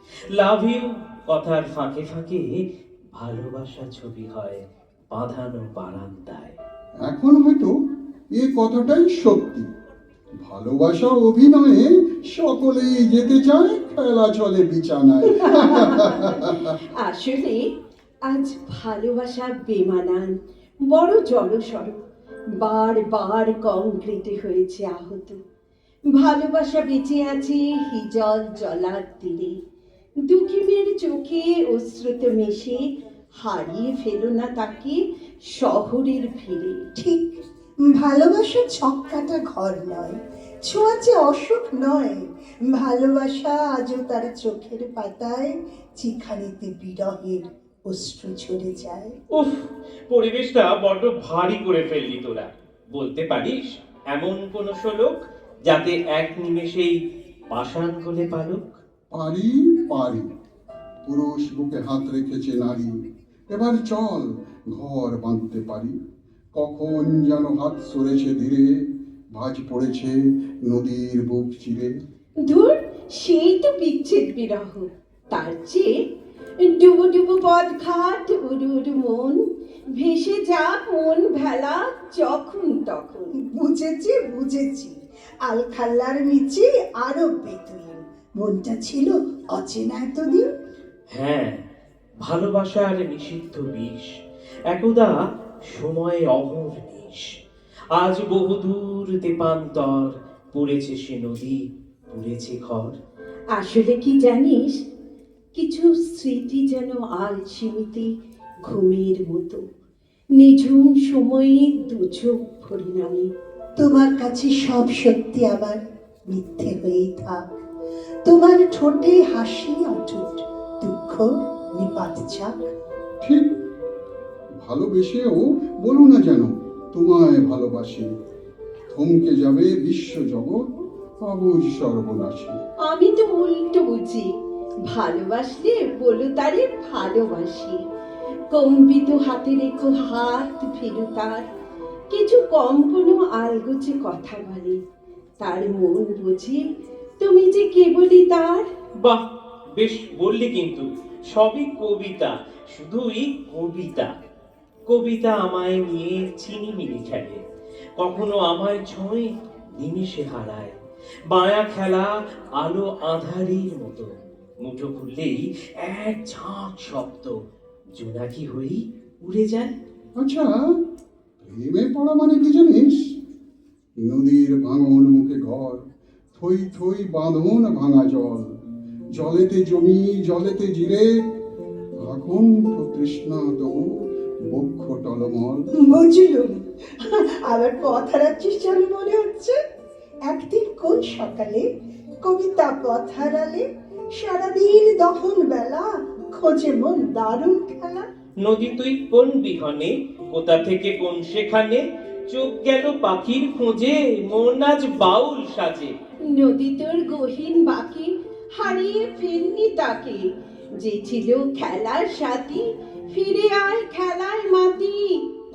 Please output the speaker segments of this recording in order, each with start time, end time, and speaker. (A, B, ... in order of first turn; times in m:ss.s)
0:00.3-0:02.6 A
0:03.1-0:06.6 A
0:07.0-0:07.7 B
0:08.3-0:09.7 B
0:10.4-0:16.7 B
0:15.5-0:17.6 C
0:18.3-0:20.4 C
0:20.9-0:22.0 C
0:22.6-0:25.4 C
0:26.2-0:29.5 C
0:30.3-0:36.9 C
0:37.0-0:37.3 D
0:37.8-0:49.1 D
0:49.4-0:57.0 A
0:57.5-0:58.8 A
0:59.1-1:00.3 B
1:01.0-1:03.0 B
1:03.5-1:06.0 B
1:06.5-1:11.9 B
1:12.4-1:15.9 C
1:16.6-1:19.4 C
1:19.9-1:23.3 C
1:23.4-1:24.9 D
1:25.4-1:30.4 D
1:31.2-1:31.6 A
1:32.2-1:34.1 A
1:34.7-1:35.2 A
1:35.7-1:37.3 A
1:38.0-1:41.6 A
1:42.1-1:43.0 A
1:43.5-1:44.7 C
1:45.6-1:48.1 C
1:48.6-1:49.6 C
1:50.4-1:53.3 C
1:53.8-1:57.4 D
1:58.2-2:02.5 D
2:03.2-2:03.5 B
2:04.6-2:08.1 B
2:08.9-2:10.6 B
2:11.2-2:12.6 B
2:12.8-2:14.3 C
2:14.9-2:17.8 C
2:18.5-2:21.4 C
2:22.1-2:24.8 C
2:25.4-2:26.6 C
2:27.2-2:28.6 C
2:29.8-2:34.1 A
2:34.9-2:37.4 A
2:38.0-2:40.8 A
2:41.3-2:44.1 A
2:44.6-2:47.4 A
2:48.0-2:49.7 A
2:50.2-2:50.8 B
2:51.4-2:53.2 B
2:54.0-2:55.8 B
2:56.4-2:58.5 B
2:59.2-3:01.2 B
3:02.0-3:05.7 B
3:05.8-3:09.6 D
3:10.3-3:11.7 D
3:12.2-3:18.0 D
3:18.4-3:25.9 A
3:26.3-3:35.2 C